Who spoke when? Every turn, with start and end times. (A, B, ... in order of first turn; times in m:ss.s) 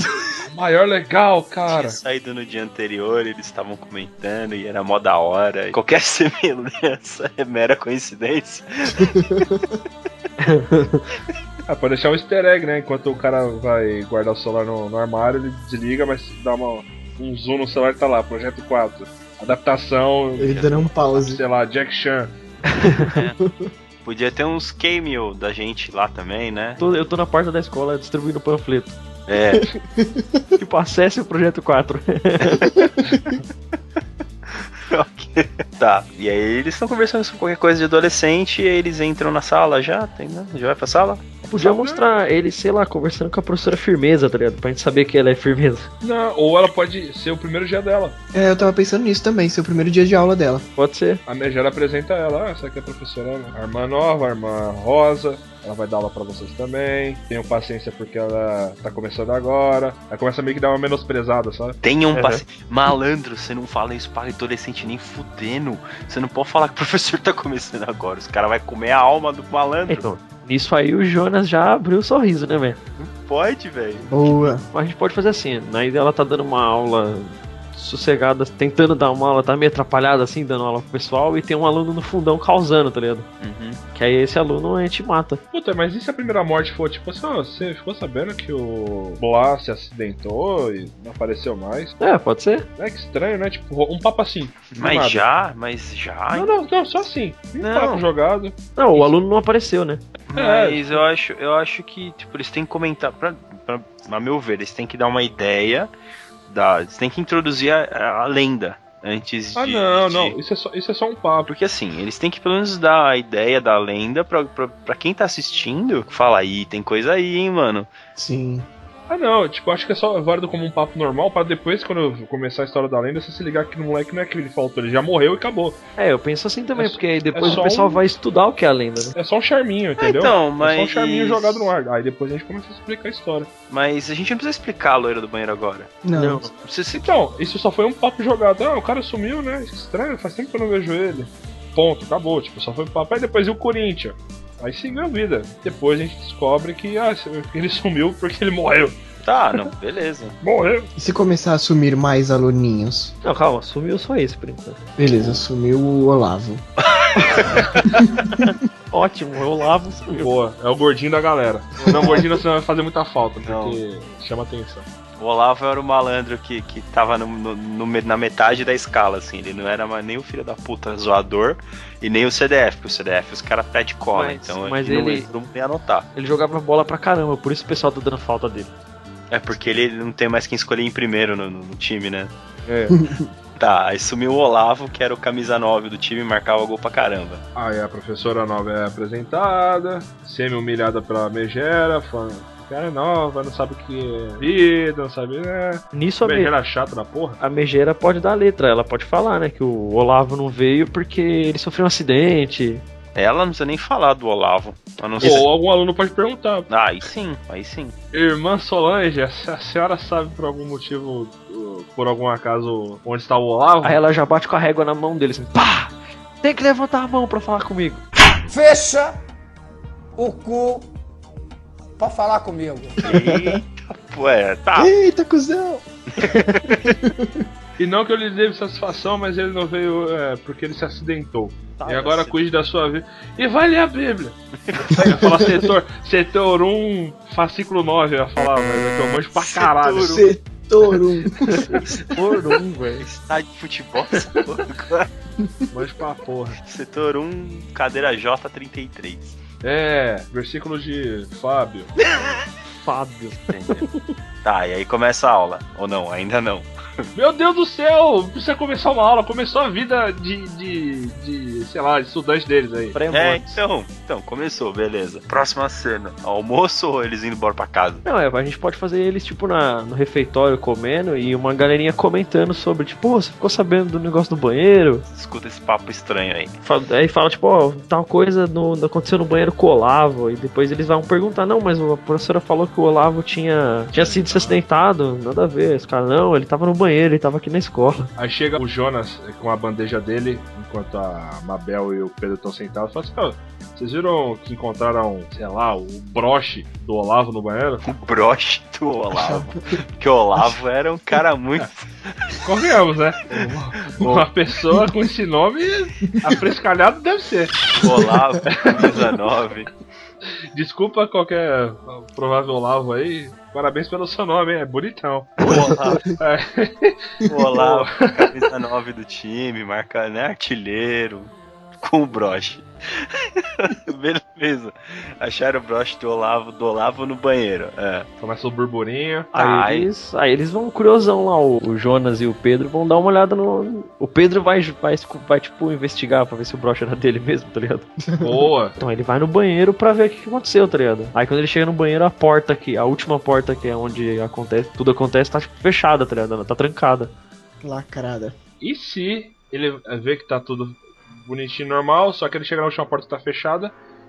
0:00.4-0:02.0 A
0:01.7-0:09.5 B
0:09.0-0:09.6 C
0:10.4-0:11.0 D
0:11.7-0:22.3 A
0:20.4-0:21.4 C
0:20.6-0:20.9 B
0:22.8-0:23.1 D
0:23.0-0:23.4 B
0:23.4-0:23.7 C
0:24.0-0:26.8 B
0:26.8-0:29.0 D
0:29.3-0:29.7 B
0:29.6-0:30.5 C
0:30.6-0:32.8 D
0:32.4-0:32.7 B
0:34.5-0:41.2 B
0:41.4-0:45.9 D
0:41.6-0:42.0 A
0:46.0-0:48.2 A
0:48.3-0:50.6 C
0:50.8-0:51.2 D
0:51.2-1:01.8 A
1:01.8-1:10.0 B
1:02.1-1:02.4 D
1:09.9-1:12.8 D
1:13.0-1:14.4 B
1:14.0-1:14.6 C
1:14.7-1:23.3 D
1:23.4-1:23.8 B
1:23.9-1:25.4 D
1:25.5-1:32.0 A
1:32.0-1:32.7 D
1:32.8-1:35.2 A
1:34.7-1:36.5 B
1:36.3-1:39.1 A
1:37.6-1:38.0 B
1:38.8-1:40.0 D
1:40.2-1:45.9 B
1:40.3-1:41.0 A
1:46.5-1:50.3 B
1:49.6-1:51.5 A
1:51.5-1:57.9 B
1:58.2-1:58.7 C
1:59.1-2:05.8 A
2:06.0-2:09.1 D
2:06.7-2:08.0 A
2:09.1-2:13.5 A
2:10.0-2:11.7 B
2:13.7-2:15.9 B
2:16.0-2:16.5 C
2:16.1-2:16.5 D
2:16.6-2:17.1 B
2:16.9-2:29.0 A
2:29.2-2:30.4 B
2:30.4-2:30.9 A
2:31.0-2:33.1 C
2:33.2-2:34.8 D
2:35.0-2:36.6 C
2:37.0-2:37.4 B
2:37.4-2:37.6 D
2:38.4-2:40.3 D
2:40.2-2:44.8 A
2:43.4-2:43.8 B
2:45.2-2:56.1 B
2:54.1-2:55.3 D
2:56.1-2:58.7 D
2:59.3-3:02.3 B
3:02.7-3:03.0 A
3:02.9-3:03.3 C
3:03.6-3:07.4 B
3:07.5-3:17.4 A
3:15.9-3:16.5 D
3:17.4-3:22.8 D
3:23.1-3:25.4 B
3:25.2-3:26.7 A
3:26.7-3:27.9 B
3:28.1-3:34.0 A
3:33.8-3:38.0 D
3:38.5-3:39.1 E
3:40.2-3:40.8 E
3:42.0-3:42.7 E
3:43.0-3:44.9 B
3:43.0-3:43.6 C
3:44.7-3:47.4 C
3:46.2-3:46.9 B
3:47.8-3:54.4 A
3:51.8-3:52.2 D
3:54.6-3:55.1 B
3:54.9-4:00.3 A
3:55.2-3:55.6 C
3:59.3-4:00.3 B
4:00.0-4:01.7 C
4:01.7-4:03.1 D
4:03.0-4:05.1 B
4:05.7-4:06.6 A
4:06.6-4:09.4 B
4:09.6-4:11.9 A
4:12.8-4:14.0 D
4:13.5-4:13.8 B
4:14.4-4:16.7 B
4:17.1-4:23.0 A
4:22.9-4:23.6 D
4:23.1-4:28.0 B
4:28.0-4:35.0 D
4:35.1-4:36.5 B
4:36.6-4:48.1 D
4:44.0-4:44.6 A
4:44.0-4:44.5 B
4:48.2-4:57.8 A
4:57.8-5:01.9 B
4:59.1-4:59.5 C
5:02.4-5:07.6 A
5:03.9-5:04.2 B
5:07.7-5:09.7 B
5:08.5-5:09.0 A
5:10.5-5:15.5 A
5:15.4-5:16.1 B
5:16.2-5:17.0 A
5:17.3-5:28.1 B
5:17.5-5:18.3 A
5:28.2-5:29.3 A
5:29.3-5:37.9 D
5:29.3-5:29.9 B
5:38.1-5:38.4 C
5:38.2-5:38.8 A
5:38.8-5:47.1 D
5:47.6-5:48.3 C
5:48.6-5:53.7 A